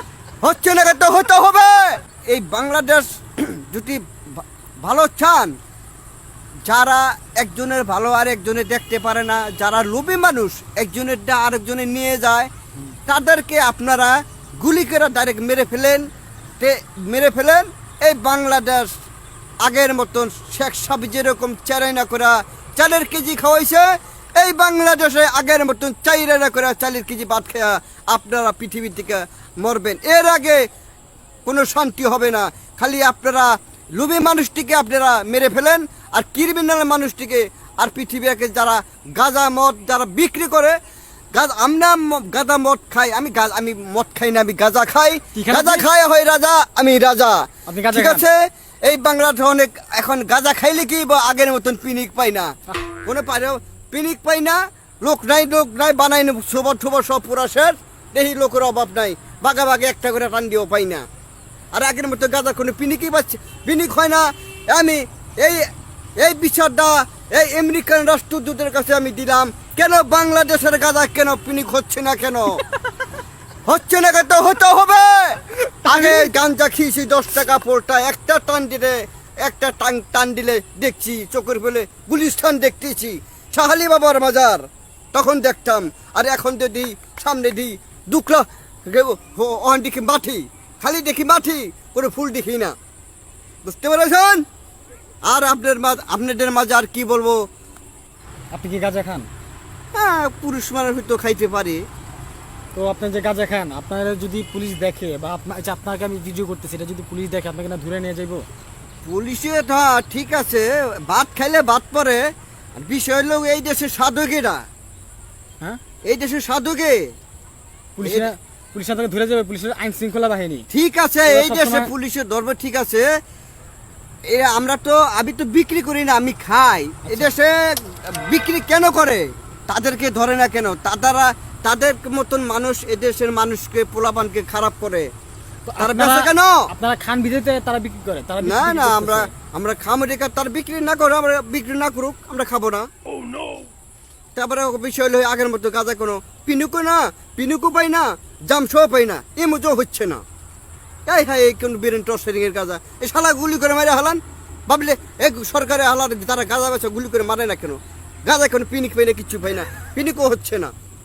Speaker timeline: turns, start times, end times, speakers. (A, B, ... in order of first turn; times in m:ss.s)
0:00.4-0:05.5 A
0:06.7-0:12.5 A
0:13.1-0:16.0 A
0:16.6-0:18.9 A
0:19.6-0:23.9 A
0:24.4-0:30.6 A
0:31.5-0:40.8 A
0:41.3-0:52.5 A
0:45.4-0:45.9 B
0:47.7-0:48.2 B
0:53.0-1:01.0 A
1:01.7-1:05.6 A
1:06.2-1:12.6 A
1:13.7-1:32.8 A
1:15.9-1:16.3 B
1:33.6-1:34.4 A
1:35.3-1:37.4 A
1:38.5-1:39.3 B
1:39.9-1:41.8 A
1:42.7-1:48.4 B
1:49.0-1:52.2 A
1:52.8-1:54.6 A
1:56.1-1:57.0 A
1:58.0-2:00.7 B
2:00.7-2:03.1 A
2:01.3-2:01.9 B
2:04.3-2:15.1 A
2:07.1-2:07.4 B
2:15.6-2:19.3 B
2:15.8-2:16.5 A
2:18.4-2:22.9 A
2:24.4-2:30.2 A
2:31.1-2:40.7 A